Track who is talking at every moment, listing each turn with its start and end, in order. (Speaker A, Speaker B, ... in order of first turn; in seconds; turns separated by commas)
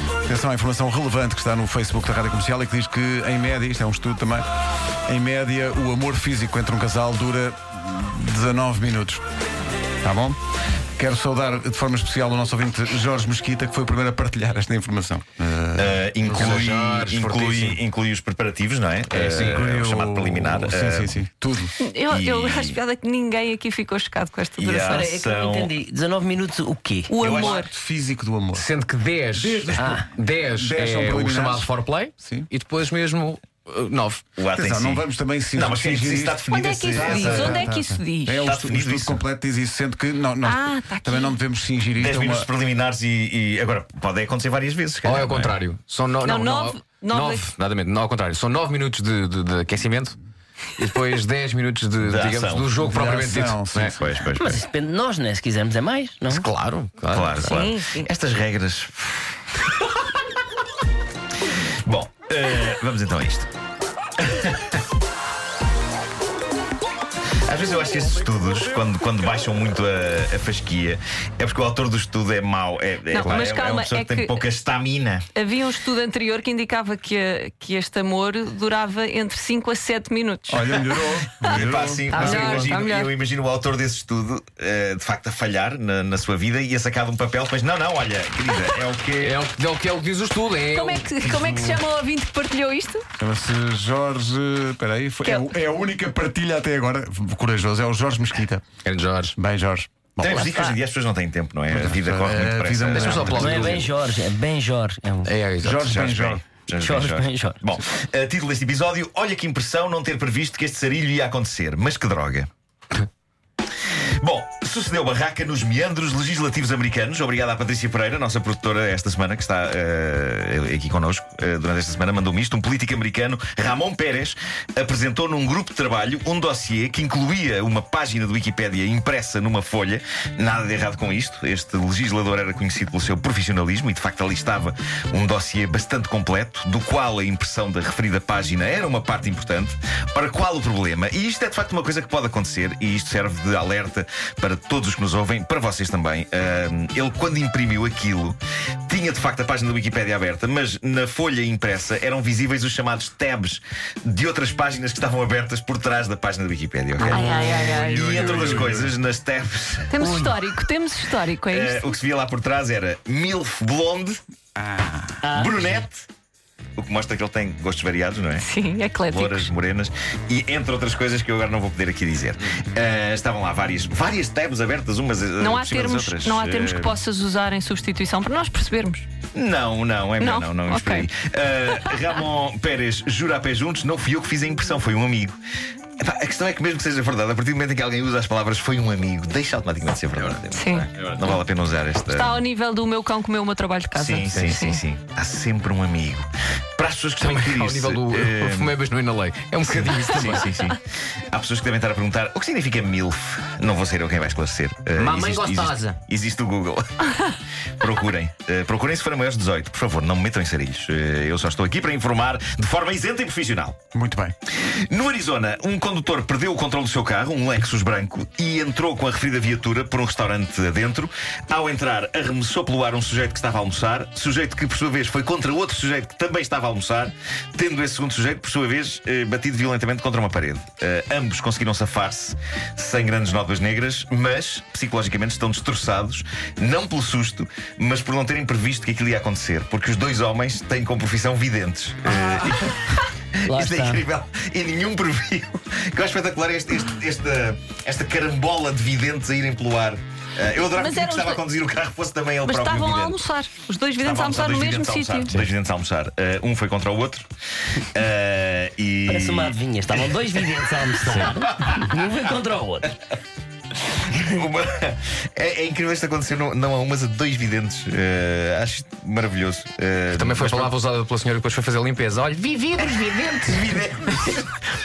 Speaker A: 0.2-4.5, Speaker A: 5.0-9.2, Speaker A: 10.0-10.4, Speaker A: 10.9-16.7, Speaker B: 15.7-21.2, Speaker C: 16.3-17.8, Speaker C: 19.1-19.6, Speaker A: 19.2-21.7, Speaker D: 21.8-25.1, Speaker B: 22.1-22.8, Speaker B: 24.6-25.7, Speaker E: 24.9-27.1, Speaker D: 27.1-27.7, Speaker B: 27.2-27.6, Speaker A: 27.2-28.7, Speaker C: 28.5-34.3, Speaker A: 29.3-32.5, Speaker E: 29.8-30.1, Speaker B: 34.4-37.6, Speaker A: 34.5-36.4, Speaker D: 36.5-38.5, Speaker A: 36.9-42.5, Speaker B: 38.4-39.2, Speaker D: 40.4-41.4, Speaker B: 42.0-45.5, Speaker C: 45.0-50.1, Speaker D: 46.2-47.5, Speaker C: 50.8-54.0, Speaker B: 52.0-52.7, Speaker A: 52.8-54.0, Speaker B: 53.9-54.6, Speaker E: 54.4-56.5, Speaker C: 56.3-57.5, Speaker B: 57.1-59.3, Speaker D: 57.5-58.1, Speaker B: 61.8-63.5, Speaker B: 64.2-64.8, Speaker B: 67.4-75.3, Speaker D: 73.1-74.4, Speaker D: 75.3-83.1, Speaker A: 80.5-82.5, Speaker B: 81.4-89.4, Speaker C: 82.3-82.6, Speaker C: 89.2-91.8, Speaker D: 90.7-93.0, Speaker A: 93.2-98.6, Speaker D: 95.2-95.5, Speaker C: 98.8-99.3, Speaker A: 99.3-100.1, Speaker B: 100.2-103.7, Speaker D: 100.2-100.8, Speaker A: 101.7-103.8, Speaker C: 102.9-103.9, Speaker E: 103.3-105.3, Speaker C: 105.2-105.8, Speaker A: 105.6-106.4, Speaker B: 105.8-112.5, Speaker E: 106.8-107.6, Speaker B: 114.2-160.4, Speaker A: 157.0-158.9, Speaker D: 157.0-158.2, Speaker E: 157.1-157.5, Speaker D: 159.9-161.9, Speaker B: 161.5-164.2, Speaker A: 164.6-165.2, Speaker E: 165.2-165.8, Speaker B: 165.2-166.1, Speaker B: 166.8-168.5, Speaker D: 168.4-169.5, Speaker B: 169.1-176.9, Speaker D: 175.4-179.1, Speaker B: 179.3-185.4, Speaker D: 180.2-181.1, Speaker D: 181.8-182.0, Speaker B: 186.0-192.4, Speaker D: 190.5-190.9, Speaker C: 190.7-191.1, Speaker D: 192.0-194.8, Speaker B: 193.9-198.8, Speaker C: 197.2-200.5, Speaker B: 199.6-207.3, Speaker E: 205.0-205.9, Speaker C: 205.2-205.6, Speaker B: 207.8-213.8, Speaker A: 213.9-214.3, Speaker B: 214.6-253.2, Speaker E: 243.5-244.0, Speaker D: 250.6-251.4, Speaker D: 252.4-255.3, Speaker B: 254.0-257.2, Speaker B: 257.8-261.9, Speaker E: 259.1-262.9, Speaker B: 263.9-270.7, Speaker C: 270.1-274.4, Speaker B: 273.3-274.5